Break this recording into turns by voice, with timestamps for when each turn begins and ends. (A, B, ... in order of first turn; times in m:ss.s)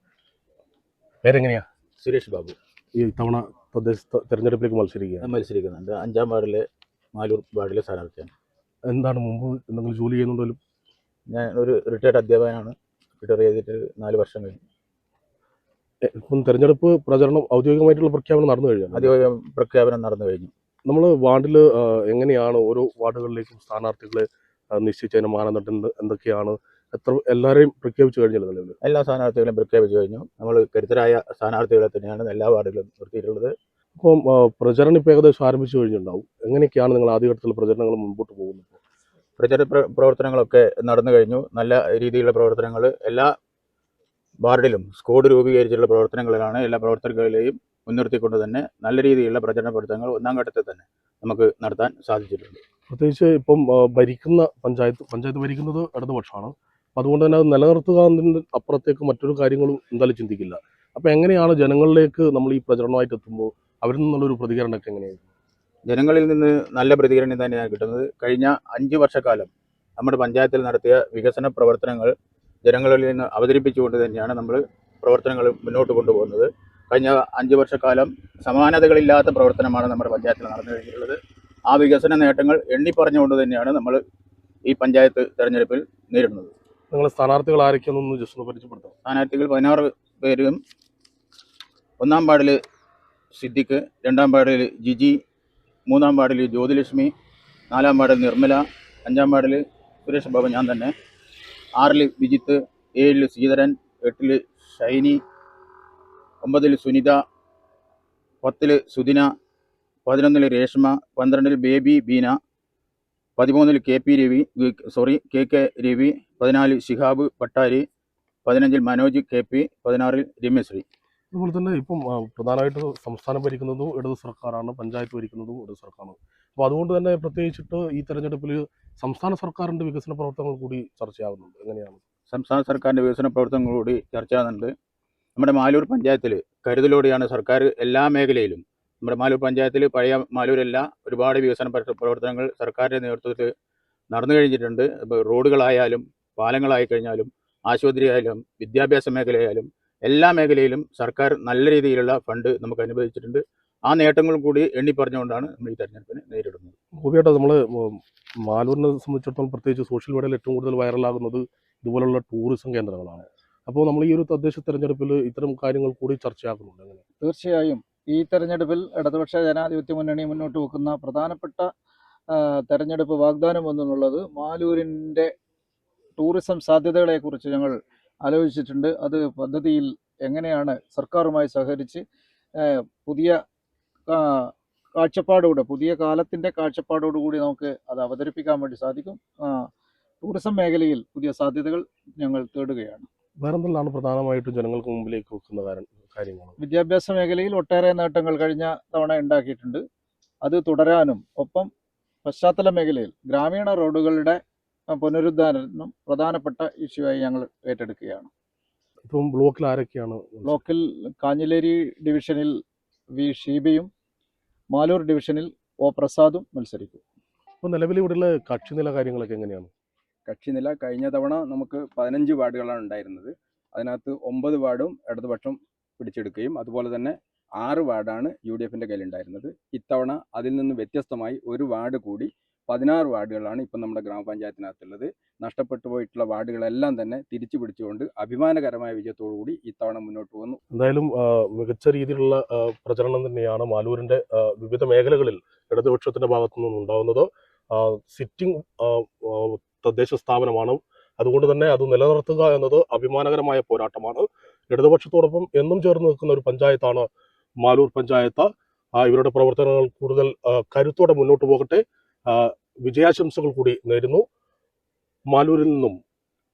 0:01.2-0:01.7 A
0:02.0-0:02.6 B
0:03.0-0:05.3 A
0:05.2-0:06.6 B
0:07.2-0:08.3 B
0:08.9-0:10.6 A
0:11.3-0:14.6 B
0:16.1-0:19.1 A
0:18.9-0:20.5 B
0:20.9-0:28.8 A
0:28.8-0:33.5 B
0:34.0-0:38.8 A
0:39.4-0:43.3 B
0:44.4-0:52.6 B
0:52.9-1:05.3 A
1:05.9-1:12.1 B
1:12.6-1:24.0 B
1:24.7-1:26.5 B
1:26.9-1:28.9 A
1:29.0-1:30.6 B
1:32.0-1:32.6 B
1:33.3-1:35.2 B
1:35.9-1:37.1 B
1:37.7-1:40.9 B
1:41.8-1:45.2 B
1:46.4-1:47.2 B
1:48.4-1:49.3 B
1:50.1-1:52.4 B
1:53.4-1:57.8 B
1:58.4-2:00.8 B
2:01.3-2:12.0 A
2:12.3-2:14.7 B
2:15.4-2:23.5 B
2:24.1-2:36.7 B
2:37.0-2:47.0 A
2:47.2-2:51.7 C
2:52.3-2:55.3 C
2:56.2-3:02.0 C
3:02.6-3:03.4 C
3:04.1-3:09.7 C
3:10.2-3:13.1 C
3:13.4-3:16.6 A
3:16.6-3:19.8 C
3:20.4-3:21.7 C
3:22.2-3:24.4 C
3:24.9-3:28.3 C
3:29.1-3:30.6 A
3:30.4-3:32.6 C
3:33.2-3:33.9 C
3:34.7-3:37.0 C
3:37.6-3:39.7 A
3:40.3-4:00.6 D
4:00.7-4:17.1 A
4:17.6-4:24.3 A
4:25.3-4:26.0 A